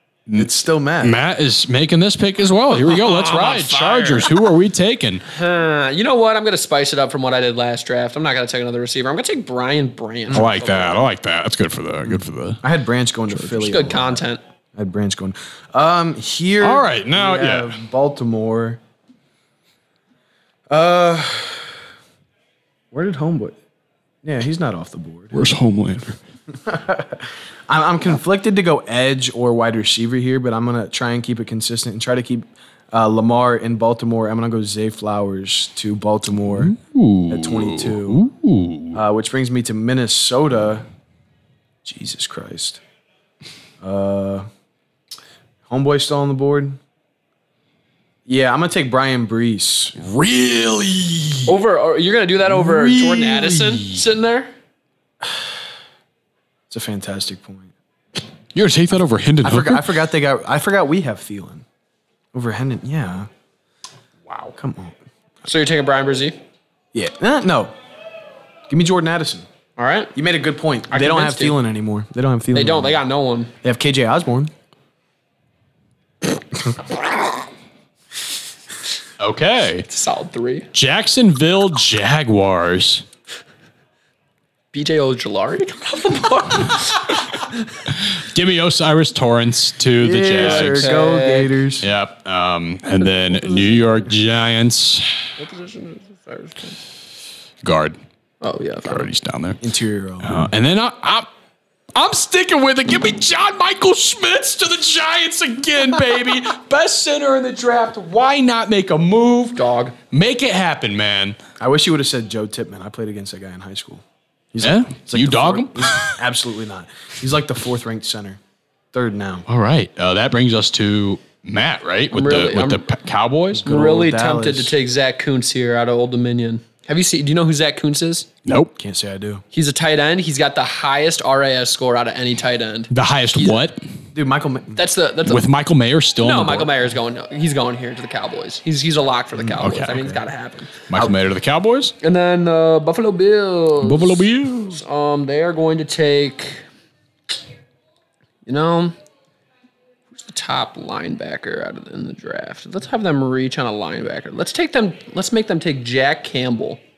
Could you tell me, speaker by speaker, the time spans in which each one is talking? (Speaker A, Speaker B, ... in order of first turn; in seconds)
Speaker A: 0.3-1.2, 12.1-14.2, 14.7-18.8, 20.7-21.7, 22.9-23.6, 24.2-25.4, 26.5-36.7, 37.3-38.2, 38.9-40.8, 41.8-42.8, 43.8-44.5, 45.7-46.8, 48.3-49.9, 56.7-57.7, 59.4-61.6, 62.3-63.3, 64.5-65.0, 66.9-67.7, 68.7-69.5, 70.1-73.0, 73.6-74.5, 90.0-91.9, 99.6-100.3, 111.6-118.4, 118.9-119.5, 123.5-124.7, 128.8-129.4, 134.1-134.8
Speaker B: 1.0-5.2, 10.3-12.6, 16.6-17.8, 25.3-26.2, 36.5-39.0, 50.0-51.5, 52.5-54.0, 58.5-59.9, 64.3-64.5, 79.2-79.9, 80.7-83.0, 87.9-90.9, 91.8-95.1, 97.6-98.0, 98.8-99.6, 100.2-101.3, 101.9-109.6, 110.1-111.4, 114.6-116.2, 119.5-123.7, 128.4-128.7, 132.9-133.8, 135.2-136.7, 139.5-140.2, 140.9-141.9, 143.8-144.8
Speaker C: 2.7-4.5, 5.3-11.1, 13.4-14.4, 51.5-54.5, 65.4-66.4, 69.8-70.1, 70.9-71.6, 72.5-73.5, 79.9-80.7, 84.7-87.5, 90.3-91.5, 93.0-94.1, 95.4-96.8, 98.4-99.1, 109.5-109.9, 122.1-122.8, 123.6-128.3, 129.5-133.7, 134.7-135.4, 136.2-140.7, 142.0-144.2, 144.7-146.6, 148.4-148.9, 150.2-156.8